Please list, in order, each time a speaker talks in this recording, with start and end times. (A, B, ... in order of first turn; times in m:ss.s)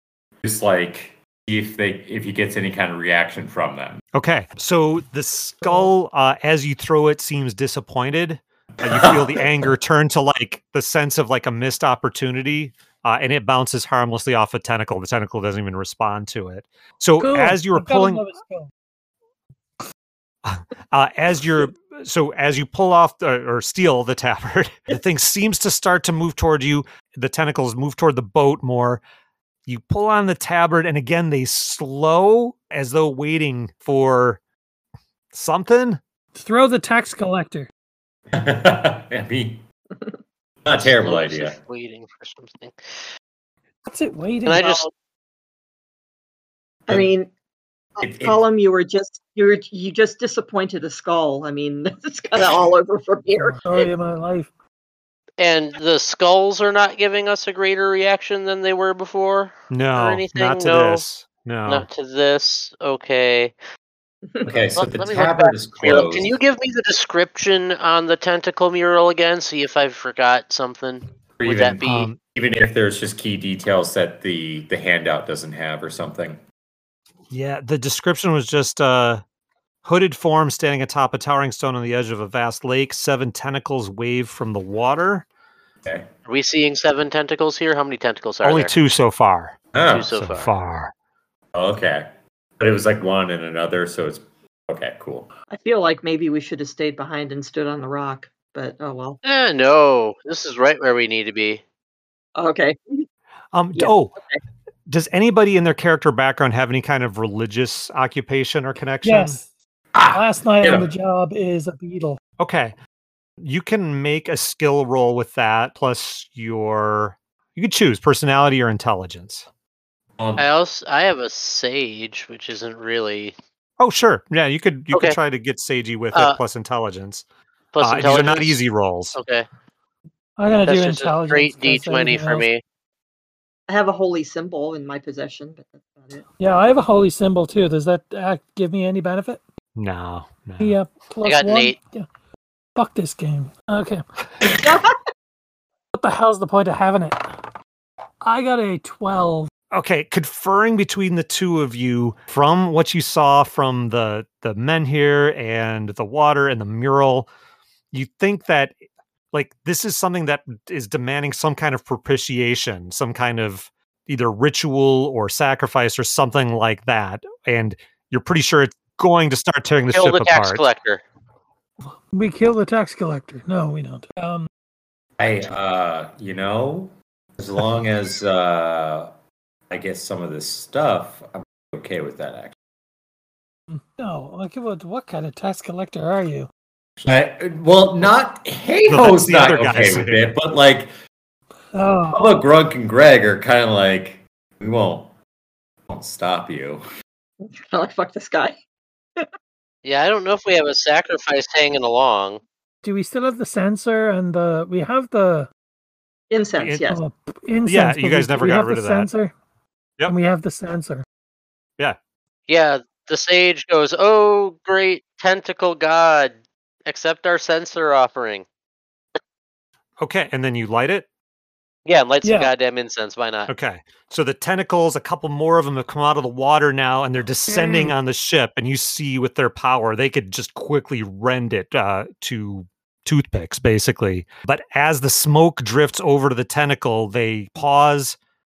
0:00.4-0:04.0 A
0:04.1-0:18.2 B
0:08.9-0:09.4 A
0:17.2-0:18.7 C
0:20.4-0:29.0 B
0:29.6-0:34.4 B
0:35.3-0:36.0 B
0:36.4-0:37.7 C
0:38.3-0:39.6 A
0:40.6-0:41.6 A
0:40.8-0:43.1 D
0:43.8-0:44.8 C
0:44.4-0:44.9 D
0:46.9-0:47.3 E
0:48.0-0:53.9 E
0:48.0-0:48.4 A
0:53.4-0:54.5 C
0:55.4-1:01.0 D
0:59.7-1:01.9 B
1:01.7-1:03.5 D
1:04.4-1:06.4 A
1:04.8-1:12.1 D
1:11.4-1:16.4 A
1:11.8-1:12.2 B
1:17.3-1:19.2 B
1:19.8-1:25.2 B
1:25.8-1:26.1 A
1:26.2-1:28.7 D
1:28.4-1:29.6 B
1:29.7-1:30.1 A
1:29.9-1:30.5 D
1:30.1-1:30.9 B
1:31.5-1:35.3 A
1:35.5-1:39.2 E
1:39.2-1:41.6 D
1:42.4-1:43.0 E
1:43.5-1:44.2 B
1:43.7-1:44.4 E
1:44.9-1:49.4 B
1:49.0-1:49.5 C
1:49.9-1:50.9 A
1:50.1-1:52.2 C
1:52.4-1:52.7 B
1:53.4-1:59.5 B
2:00.2-2:00.4 A
2:00.4-2:03.3 D
2:03.8-2:07.2 B
2:04.9-2:05.2 D
2:07.7-2:08.6 D
2:07.8-2:09.2 B
2:09.1-2:09.5 D
2:10.4-2:12.5 C
2:10.6-2:12.6 D
2:13.7-2:16.2 E
2:16.4-2:19.4 C
2:19.8-2:20.8 B
2:20.6-2:22.1 C
2:21.2-2:21.8 D
2:22.8-2:24.0 C
2:24.5-2:25.0 E
2:25.9-2:27.3 C
2:28.2-2:29.5 C
2:29.7-2:37.3 B
2:37.9-2:38.8 B
2:39.3-2:50.6 B
2:49.9-2:51.0 D
2:52.1-2:54.5 C
2:55.2-2:59.1 A
2:59.7-3:02.5 A
3:03.7-3:06.5 C
3:07.0-3:10.9 A
3:08.9-3:10.3 B
3:11.7-3:12.3 C
3:12.1-3:15.1 A
3:15.9-3:16.8 A
3:17.4-3:18.6 E
3:19.8-3:22.4 D
3:22.8-3:25.5 C
3:26.3-3:27.0 E
3:26.6-3:26.8 B
3:26.9-3:29.3 C
3:27.6-3:29.1 B
3:30.0-3:31.0 C
3:32.5-3:36.3 D
3:36.8-3:38.4 D
3:40.0-3:41.1 B
3:41.8-3:43.5 D
3:42.2-3:42.5 C
3:43.5-3:58.2 B
3:47.5-3:47.9 C